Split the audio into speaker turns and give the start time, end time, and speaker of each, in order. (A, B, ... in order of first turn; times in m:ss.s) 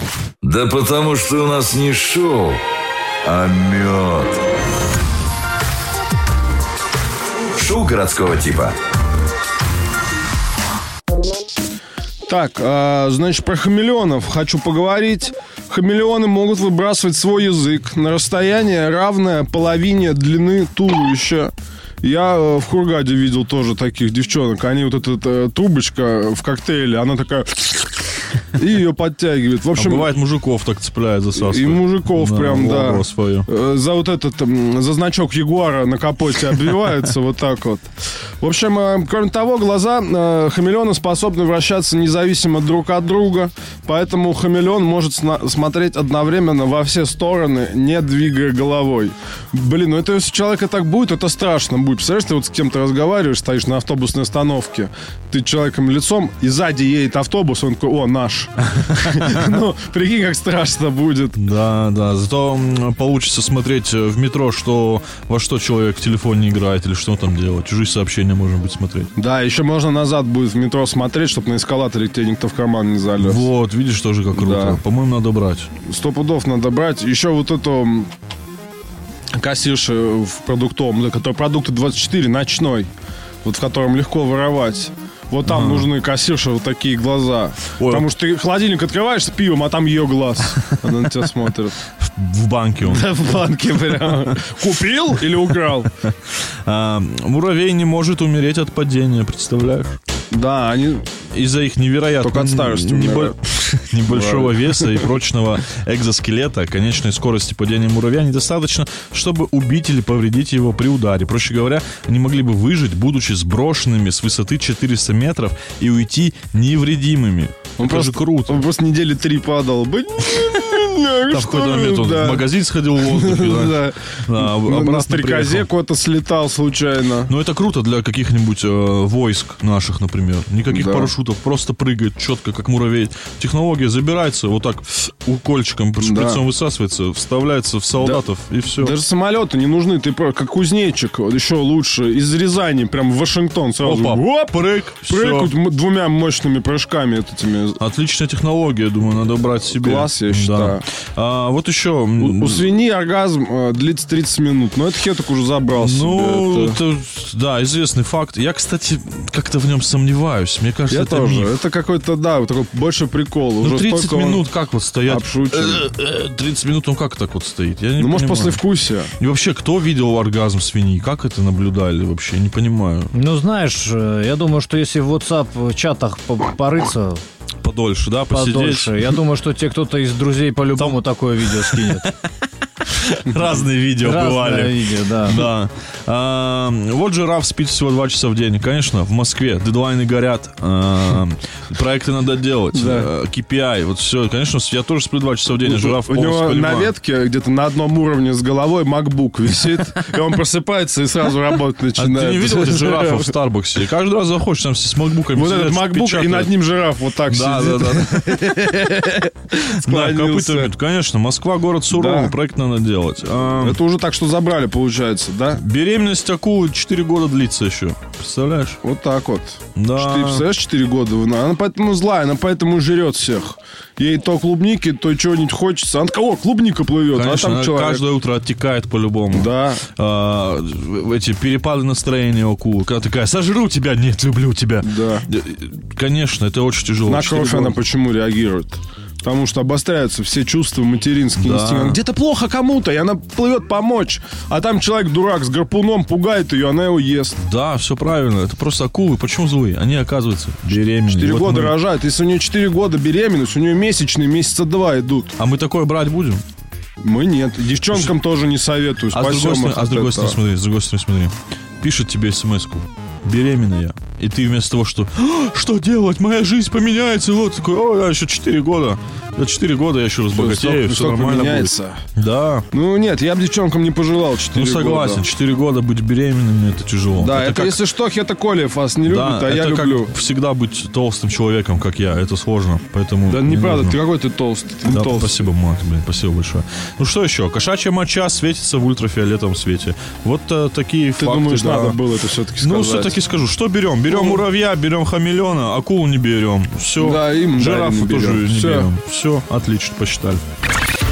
0:00.4-0:02.6 A
0:03.2-0:04.4 A
0:07.6-0:08.8 A
0:12.3-0:28.0 B
0:28.5-0:30.1 B
0:29.7-0:33.5 C
0:31.4-0:37.8 B
0:38.4-1:01.4 B
1:01.4-1:09.1 C
1:09.2-1:13.5 B
1:13.2-1:15.7 C
1:14.3-1:14.8 B
1:15.8-1:18.1 B
1:19.4-1:22.9 B
1:23.4-1:31.8 B
1:25.4-1:25.9 C
1:27.8-1:28.1 C
1:32.0-1:33.1 C
1:32.8-1:35.9 B
1:36.1-1:40.0 C
1:40.3-1:41.1 B
1:41.3-1:58.6 C
1:42.2-1:43.4 B
1:44.1-1:45.1 B
1:57.8-2:02.5 B
2:01.3-2:05.7 C
2:03.0-2:07.3 B
2:07.3-2:19.0 C
2:10.7-2:11.1 B
2:16.0-2:16.4 B
2:18.0-2:18.2 B
2:18.8-2:24.5 B
2:23.8-2:25.6 C
2:25.0-2:27.8 B
2:27.8-2:32.7 C
2:29.8-2:30.9 B
2:32.2-2:36.8 B
2:35.8-2:41.5 C
2:40.9-2:44.4 B
2:43.6-2:48.6 C
2:45.1-2:45.8 B
2:48.0-2:49.1 B
2:49.2-2:53.1 C
2:53.1-2:57.2 D
2:57.6-2:59.2 C
2:58.3-3:02.1 D
3:00.7-3:02.1 C
3:02.8-3:16.9 C
3:04.0-3:05.5 D
3:12.7-3:13.1 B
3:15.6-3:23.3 B
3:22.0-3:26.5 C
3:25.3-3:30.7 B
3:27.3-3:28.7 C
3:29.7-3:33.8 C
3:31.9-3:32.3 B
3:33.6-3:35.6 B
3:35.5-3:38.8 C
3:38.8-3:48.0 B
3:39.8-3:40.5 C
3:47.1-3:57.8 C
3:49.3-3:49.8 B
3:54.8-3:55.3 B
3:57.0-4:07.4 B
4:01.4-4:02.0 C
4:07.4-4:11.8 C
4:11.0-4:15.3 B
4:15.4-4:16.4 C
4:17.0-4:20.4 B
4:17.9-4:18.2 C
4:19.1-4:32.7 C
4:30.3-4:32.0 B
4:32.7-4:35.2 B
4:34.5-4:37.8 C
4:37.2-4:40.1 B
4:39.0-4:44.0 C
4:43.3-4:45.4 B
4:44.9-4:52.0 C
4:51.2-4:53.2 B
4:52.6-5:00.4 C
4:54.1-4:54.4 B
4:57.0-4:58.9 B